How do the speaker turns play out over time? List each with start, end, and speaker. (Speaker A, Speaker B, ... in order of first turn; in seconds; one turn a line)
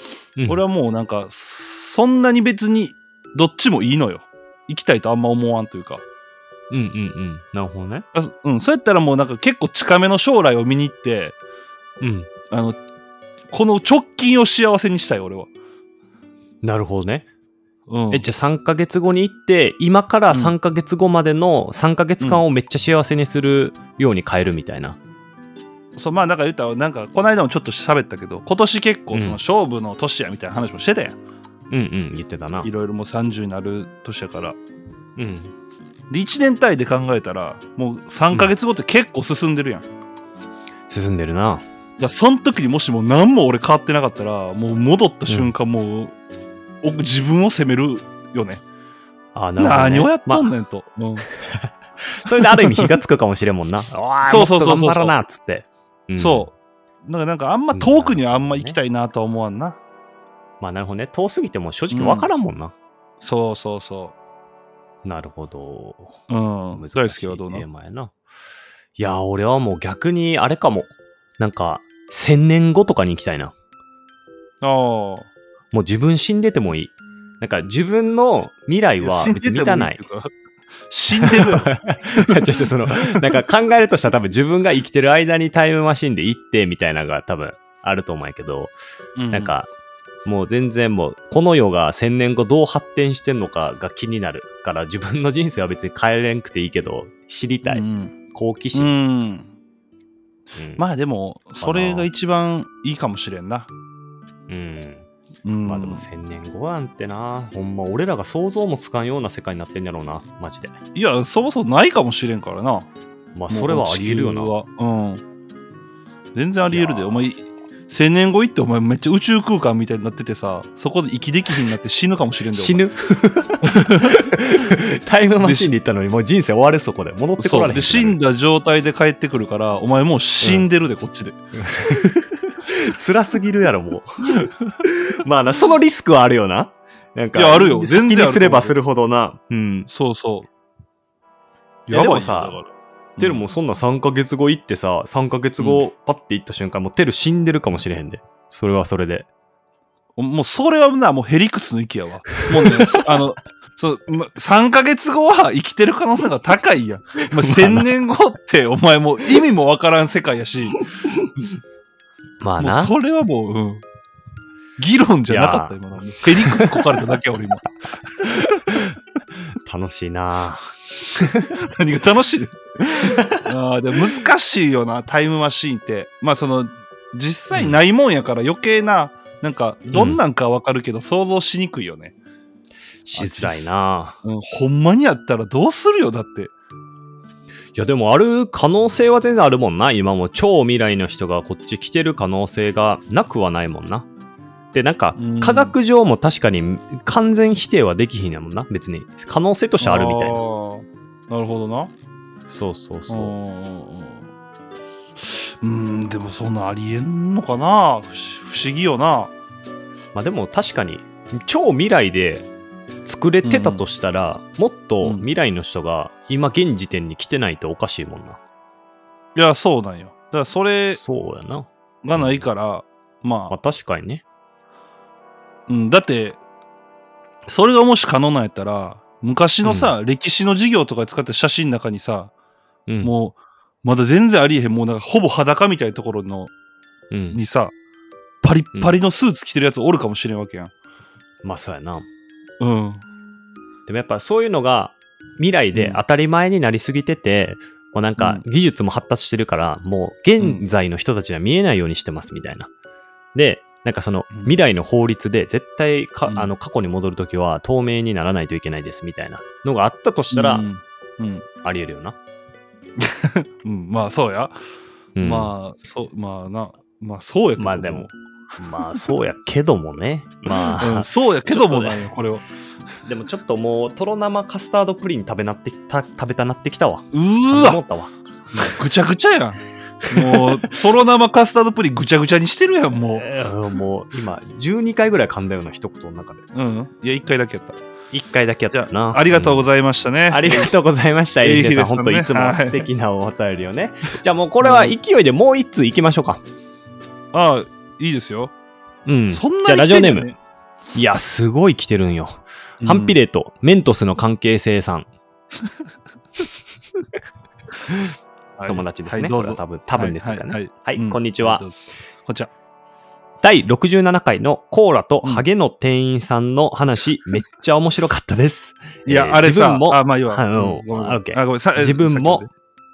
Speaker A: 0.5-6.0
Speaker B: 6.7-8.1
Speaker A: 8.1-11.4
Speaker B: 12.0-12.3
Speaker A: 12.5-12.8
Speaker A: 13.5-15.5
Speaker B: 16.6-17.3
Speaker A: 17.9-18.2
Speaker B: 18.1-25.0
Speaker A: 25.9-31.2
Speaker B: 29.1-29.4
Speaker B: 31.7-32.7
Speaker A: 32.6-34.6
Speaker B: 35.2-35.5
Speaker A: 36.1-39.9
Speaker B: 40.9-41.6
Speaker A: 42.0-46.1
Speaker A: 46.8-48.6
Speaker B: 49.4-50.5
Speaker A: 49.6-51.3
Speaker B: 51.4-56.5
Speaker A: 52.4-52.9
Speaker A: 54.2-55.1
Speaker A: 56.2-59.8
Speaker B: 57.7-58.8
Speaker B: 60.6-62.7
Speaker A: 61.9-62.3
Speaker A: 63.2-64.2
Speaker B: 65.0-66.2
Speaker A: 66.3-67.7
Speaker B: 66.7-68.1
Speaker B: 69.0-73.5
Speaker A: 74.6-75.3
Speaker B: 75.7-80.0
Speaker A: 79.0-80.3
Speaker A: 80.9-83.3
Speaker B: 81.2-88.8
Speaker A: 89.2-89.5
Speaker B: 89.3-89.7
Speaker B: 90.2-98.9
Speaker A: 97.7-98.2
Speaker A: 98.7-99.5
Speaker B: 100.6-100.8
Speaker A: 100.8-103.7
Speaker B: 101.6-102.1
Speaker B: 104.5-105.1
Speaker A: 105.5-106.1
Speaker B: 105.7-110.8
Speaker A: 111.0-112.9
Speaker B: 113.3-114.5
Speaker A: 113.5-115.2
Speaker A: 116.3-122.8
Speaker B: 116.7-117.2
Speaker B: 122.5-128.2
Speaker A: 123.6-124.4
Speaker A: 125.4-125.7
Speaker A: 127.4-131.4
Speaker B: 130.4-130.7
Speaker B: 131.6-139.9
Speaker A: 134.2-134.8
Speaker A: 137.3-138.8
Speaker A: 139.9-140.5
Speaker A: 141.9-143.4
Speaker B: 141.9-142.6
Speaker B: 143.2-149.3
Speaker A: 150.2-160.8
Speaker B: 152.4-153.1
Speaker B: 157.2-157.8
Speaker B: 162.4-162.9
Speaker A: 162.6-163.8
Speaker A: 164.8-168.8
Speaker B: 165.3-167.0
Speaker B: 168.4-168.9
Speaker B: 169.6-171.6
Speaker A: 171.6-182.2
Speaker B: 173.0-173.4
Speaker B: 177.5-177.8
Speaker B: 179.9-180.2
Speaker B: 183.1-184.2
Speaker A: 183.2-186.5
Speaker B: 187.8-194.1
Speaker B: 194.7-200.4
Speaker A: 195.2-195.8
Speaker A: 199.8-201.9
Speaker B: 202.5-203.3
Speaker A: 203.1-204.2
Speaker A: 205.2-209.3
Speaker B: 210.2-212.5
Speaker B: 213.1-218.4
Speaker A: 213.4-213.8
Speaker A: 219.3-221.0
Speaker B: 220.9-222.4
Speaker A: 222.0-223.5
Speaker B: 223.5-224.2
Speaker A: 225.7-226.4
Speaker A: 227.5-232.3
Speaker B: 229.6-229.9
Speaker B: 232.9-233.1
Speaker A: 233.0-236.5
Speaker B: 237.1-237.4
Speaker A: 237.3-237.7
Speaker A: 238.4-240.7
Speaker B: 241.4-242.1
Speaker A: 242.6-243.0
Speaker B: 243.9-252.7
Speaker A: 245.7-246.0
Speaker A: 248.2-248.4
Speaker A: 250.4-250.7
Speaker B: 253.3-260.7
Speaker A: 260.3-261.5
Speaker B: 261.6-262.2
Speaker A: 263.0-264.6
Speaker B: 265.2-265.5
Speaker A: 265.2-268.1
Speaker B: 267.6-272.0
Speaker A: 270.8-272.4
Speaker B: 273.0-278.7
Speaker A: 277.1-277.8
Speaker A: 278.6-283.2
Speaker B: 280.1-280.8
Speaker B: 283.1-286.4
Speaker A: 286.5-287.8
Speaker B: 288.1-289.6
Speaker A: 288.7-290.7
Speaker B: 290.3-296.4
Speaker A: 291.4-292.9
Speaker A: 294.6-294.9
Speaker A: 297.3-298.5
Speaker B: 299.1-300.3
Speaker A: 299.3-300.4
Speaker B: 300.9-305.1
Speaker A: 302.8-303.2
Speaker A: 308.6-311.7
Speaker B: 308.7-311.6
Speaker A: 312.2-312.5
Speaker B: 313.4-322.4
Speaker A: 319.1-322.5